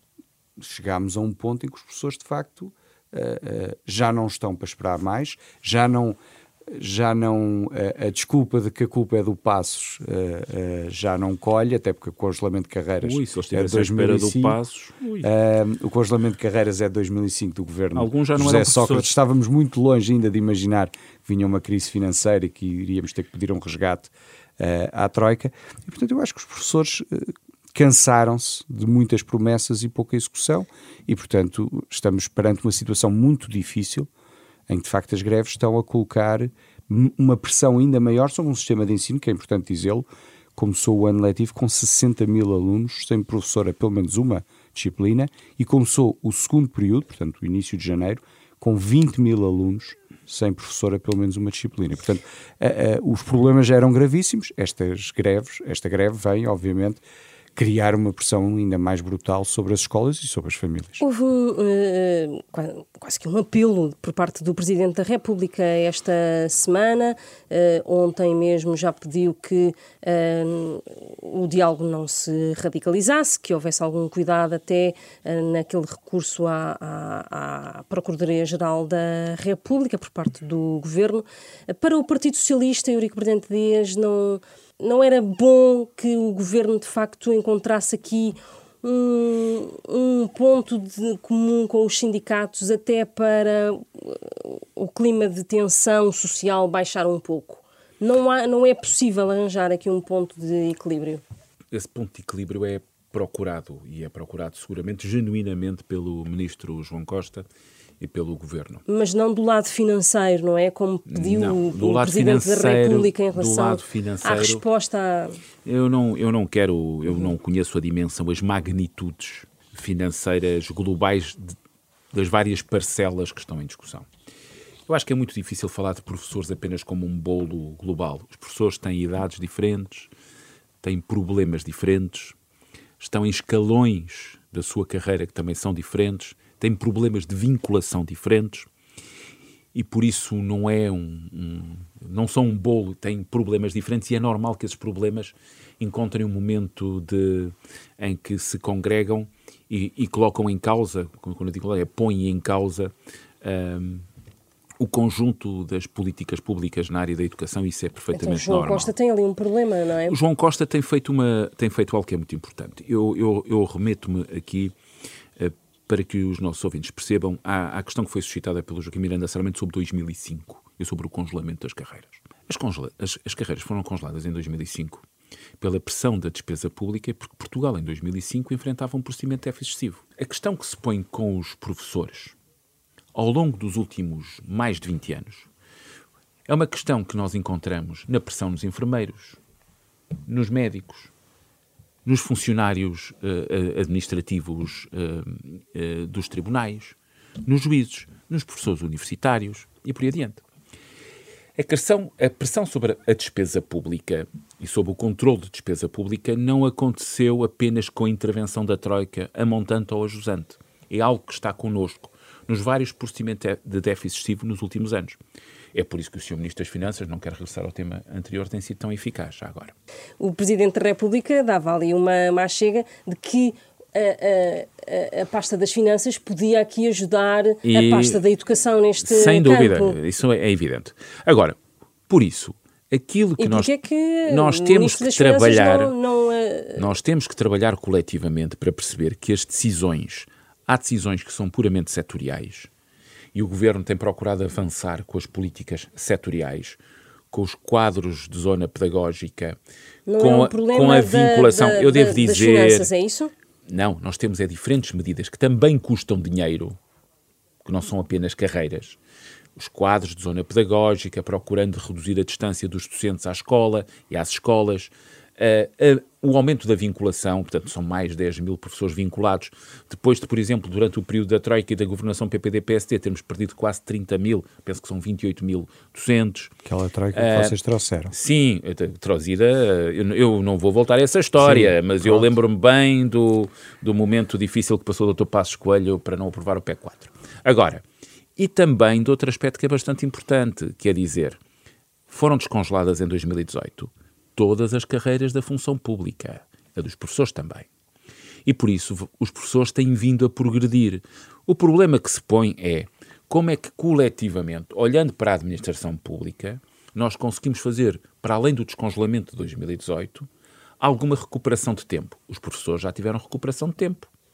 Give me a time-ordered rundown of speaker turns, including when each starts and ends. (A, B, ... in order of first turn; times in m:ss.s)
0:00.6-0:14.6 A
0:13.0-0:15.3 B
0:15.2-0:34.1 A
0:18.0-0:19.1 B
0:34.7-0:57.0 A
0:57.6-1:01.0 A
1:01.0-1:41.2 C
1:41.7-1:47.4 B
1:48.0-1:48.8 B
1:48.9-1:55.4 C
1:51.1-1:54.6 B
1:55.6-2:01.5 B
2:02.1-2:04.0 B
2:04.9-2:10.1 B
2:10.8-2:12.4 B
2:13.0-2:18.7 B
2:19.7-2:34.0 B
2:34.8-2:38.9 B
2:38.1-2:40.2 C
2:40.1-2:44.7 B
2:45.4-2:55.0 B
2:55.6-3:02.3 B
3:03.1-3:05.5 B
3:06.5-3:09.4 B
3:10.2-3:11.1 B
3:12.0-3:20.4 B
3:21.6-3:35.2 B
3:35.7-3:39.7 B
3:40.2-3:50.0 C
3:47.6-3:48.2 B
3:49.0-3:51.6 B
3:52.1-3:53.8 B
3:53.4-3:56.9 C
3:54.2-3:55.9 B
3:56.8-4:02.7 B
4:03.3-4:06.8 B
4:07.3-4:09.6 B
4:10.1-4:13.3 C
4:10.2-4:12.9 B
4:13.7-4:16.8 B
4:17.6-4:19.0 B
4:19.6-4:36.5 B
4:36.6-4:38.1 A
4:37.1-4:37.6 B
4:38.1-4:47.8 B
4:41.4-4:42.4 A
4:48.4-4:51.4 B
4:52.1-4:57.7 B
4:58.4-5:10.3 B
5:10.8-5:14.1 B